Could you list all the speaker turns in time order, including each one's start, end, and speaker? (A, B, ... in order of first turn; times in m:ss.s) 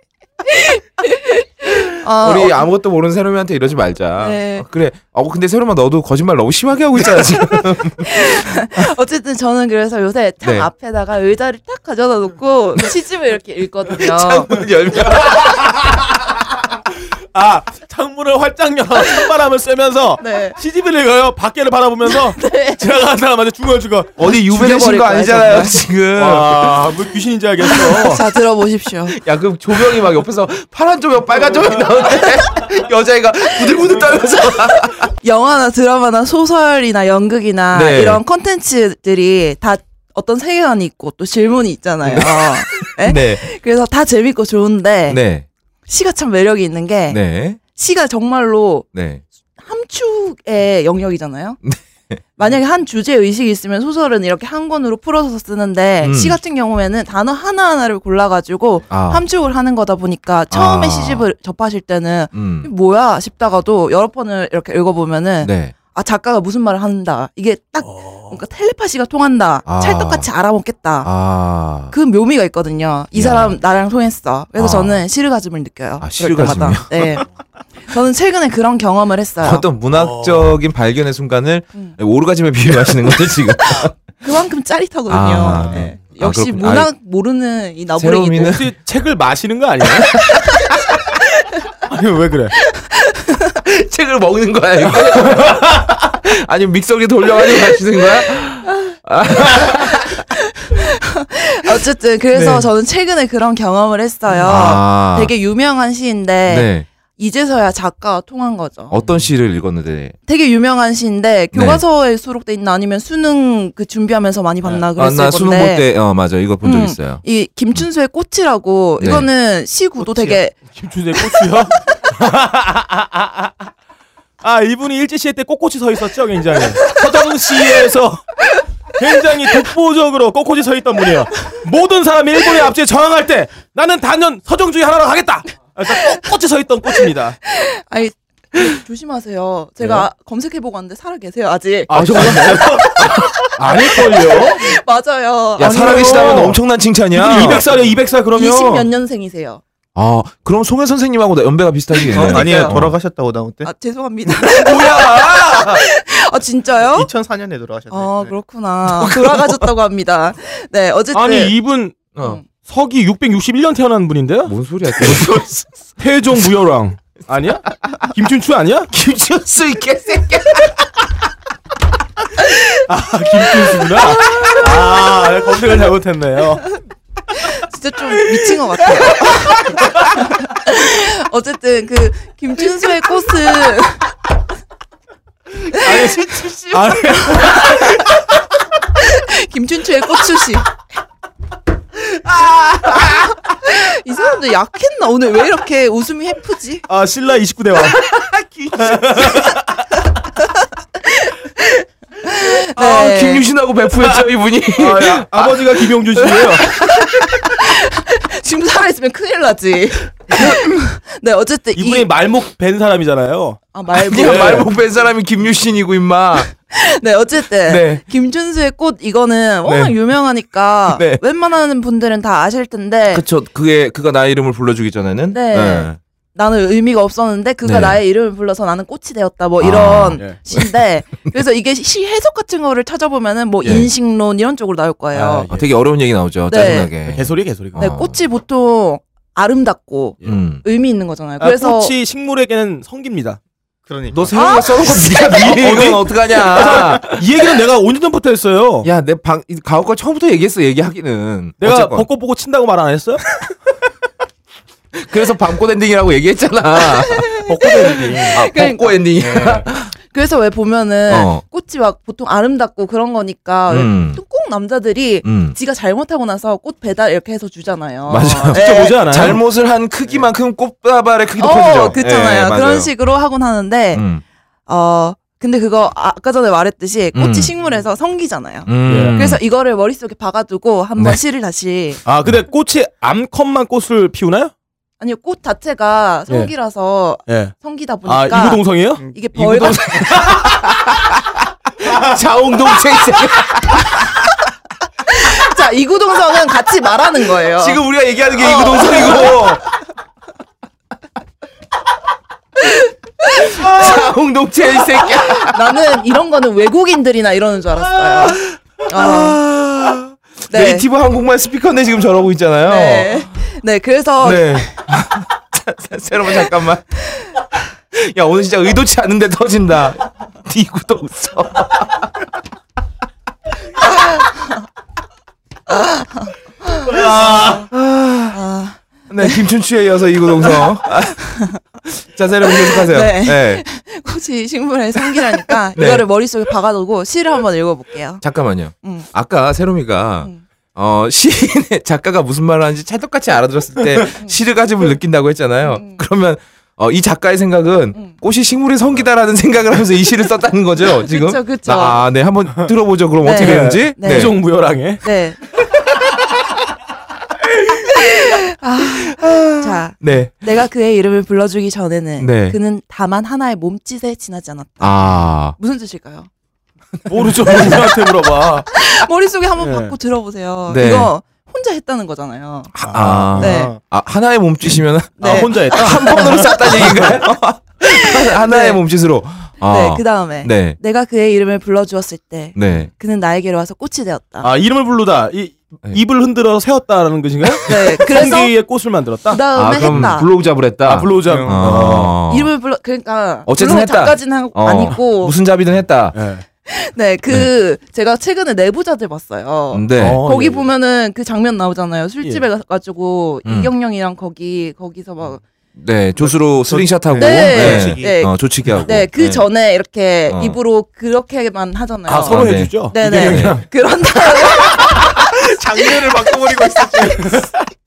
0:00.4-0:02.7 A
0:02.2-0:08.8 B
0:04.2-0:04.6 A
0:07.6-0:14.6 A
0:10.4-0:10.7 B
0:13.9-0:16.4 B
0:17.3-0:24.2 C
0:20.2-0:20.6 A
0:22.1-0:22.9 A
0:24.2-0:26.9 B
0:24.2-0:25.8 A
0:26.2-0:28.2 C
0:27.7-0:29.2 A
0:29.1-0:35.1 B
0:34.7-0:45.2 A
0:37.7-0:38.2 B
0:42.0-0:43.4 B
0:45.1-0:45.5 B
0:45.9-0:47.2 A
0:47.1-0:47.6 B
0:47.7-0:48.9 A
0:49.0-0:49.2 B
0:49.6-0:51.6 A
0:51.6-0:52.2 B
0:52.4-1:11.1 A
0:56.0-0:56.4 B
0:58.9-0:59.2 B
1:00.5-1:01.3 B
1:02.3-1:02.7 B
1:05.4-1:05.8 B
1:07.8-1:08.4 C
1:09.7-1:10.3 B
1:11.0-1:11.9 B
1:11.9-1:17.3 A
1:13.1-1:13.6 B
1:14.6-1:15.0 B
1:16.0-1:17.1 B
1:17.9-1:19.6 A
1:19.4-1:23.9 B
1:19.9-1:20.5 C
1:23.7-1:28.6 A
1:25.1-1:26.9 B
1:25.5-1:25.9 C
1:28.0-1:28.7 B
1:28.4-1:30.2 C
1:30.3-1:30.5 B
1:31.9-1:32.6 C
1:32.6-1:33.6 A
1:33.6-1:40.3 B
1:39.5-1:49.0 A
1:42.3-1:42.7 C
1:44.4-1:45.3 B
1:46.5-1:46.9 B
1:48.9-1:50.2 B
1:50.3-1:55.9 A
1:51.5-1:51.8 B
1:55.0-1:57.2 B
1:56.6-2:00.6 A
1:59.0-1:59.3 B
2:00.2-2:03.6 C
2:04.4-2:08.2 C
2:09.0-2:17.4 C
2:17.4-2:26.5 A
2:21.9-2:24.8 C
2:21.9-2:23.3 B
2:25.6-2:27.6 B
2:25.6-2:26.6 C
2:27.1-2:28.9 C
2:28.3-2:29.6 A
2:30.0-2:33.0 B
2:32.1-2:33.7 D
2:32.2-2:32.8 A
2:33.6-2:37.1 A
2:34.7-2:35.4 B
2:34.8-2:35.4 C
2:36.8-2:38.4 D
2:37.9-2:41.6 A
2:38.9-2:39.7 B
2:41.1-2:42.0 C
2:42.2-2:42.4 B
2:42.6-2:45.3 C
2:44.5-2:45.8 B
2:46.0-2:48.9 C
2:48.9-2:50.8 B
2:52.9-2:56.6 C
2:57.4-3:04.1 A
3:05.7-3:08.0 C
3:05.7-3:08.0 A
3:08.9-3:10.7 A
3:12.9-3:16.8 A
3:16.9-3:18.0 C
3:17.9-3:19.4 B
3:18.8-3:19.6 C
3:21.0-3:23.5 A
3:22.8-3:27.4 B
3:24.8-3:26.7 C
3:26.7-3:32.1 A
3:31.8-3:33.6 C
3:33.7-3:34.7 A
3:33.9-3:36.5 B
3:34.2-3:34.7 C
3:36.7-3:43.2 A
3:37.7-3:38.0 B
3:39.6-3:40.0 B
3:40.9-3:41.2 B
3:43.1-3:46.0 B
3:45.3-3:55.5 A
3:47.6-3:48.0 B
3:49.6-3:50.7 B
3:53.6-3:53.9 B
3:55.1-3:55.7 C
3:55.5-3:58.2 B
3:56.5-3:56.9 A
3:57.1-3:57.9 C
3:57.8-4:01.9 A
4:00.2-4:00.6 B
4:01.4-4:03.4 C
4:03.9-4:04.4 D
4:04.1-4:07.2 B
4:04.3-4:05.6 A
4:05.3-4:08.9 C
4:08.8-4:12.1 B
4:11.6-4:13.2 C
4:14.9-4:17.4 B
4:16.9-4:19.0 A
4:17.5-4:18.4 C
4:18.3-4:19.9 B
4:19.2-4:19.7 C
4:19.9-4:29.4 A
4:21.1-4:21.4 B
4:23.7-4:24.2 B
4:25.2-4:25.6 B
4:28.1-4:32.9 B
4:28.5-4:29.4 C
4:31.4-4:34.0 A
4:33.9-4:34.2 B
4:34.7-4:42.0 A
4:37.2-4:37.5 B
4:38.7-4:39.4 B
4:38.8-4:39.2 C
4:42.0-4:44.5 C
4:45.0-4:50.6 A
4:47.3-4:47.5 C
4:48.0-4:49.0 C
4:49.3-4:54.3 B
4:55.1-4:57.8 A
4:57.6-4:59.6 B
4:58.4-4:59.6 A
5:03.2-5:04.1 A
5:03.3-5:05.9 B
5:05.0-5:09.4 A
5:07.9-5:13.3 B
5:10.5-5:10.9 A
5:12.7-5:14.8 A
5:14.2-5:17.0 B
5:17.9-5:22.1 B
5:24.0-5:24.6 A
5:25.7-5:27.4 A
5:26.9-5:28.4 B
5:27.0-5:27.6 C
5:28.3-5:29.5 A
5:29.1-5:31.3 B
5:30.4-5:31.6 A
5:31.9-5:33.6 B
5:32.4-5:38.3 A
5:35.8-5:36.0 B
5:38.2-5:54.4 B
5:38.8-5:39.1 A
5:45.7-5:46.0 A
5:51.0-5:52.0 A
5:53.2-5:55.4 A
5:53.4-5:55.0 C
5:57.9-6:06.3 A
5:58.8-6:00.3 B
6:02.2-6:02.6 B
6:04.8-6:05.6 B
6:07.1-6:08.7 C
6:07.2-6:07.8 B
6:08.7-6:12.8 A
6:09.6-6:10.0 C
6:10.7-6:11.1 B
6:12.8-6:20.8 B
6:12.8-6:13.4 C
6:13.0-6:13.8 D
6:13.4-6:13.8 A
6:15.2-6:17.1 A
6:15.2-6:17.2 C
6:17.9-6:18.8 A
6:19.6-6:24.5 A
6:22.6-6:22.9 B
6:24.4-6:30.1 C
6:27.6-6:28.6 A
6:29.3-6:30.3 A
6:29.5-6:32.5 B
6:30.8-6:32.2 C
6:31.3-6:31.9 D
6:32.3-6:35.4 A
6:33.5-6:36.2 B
6:36.1-6:36.4 C
6:36.7-6:45.4 A
6:39.7-6:40.2 B
6:40.0-6:40.7 C
6:43.5-6:43.7 B
6:45.8-6:49.5 B
6:46.7-6:48.1 D
6:47.2-6:57.2 A
6:50.3-6:50.6 B
6:52.1-6:53.7 C
6:52.3-6:53.6 B
6:55.1-6:57.5 D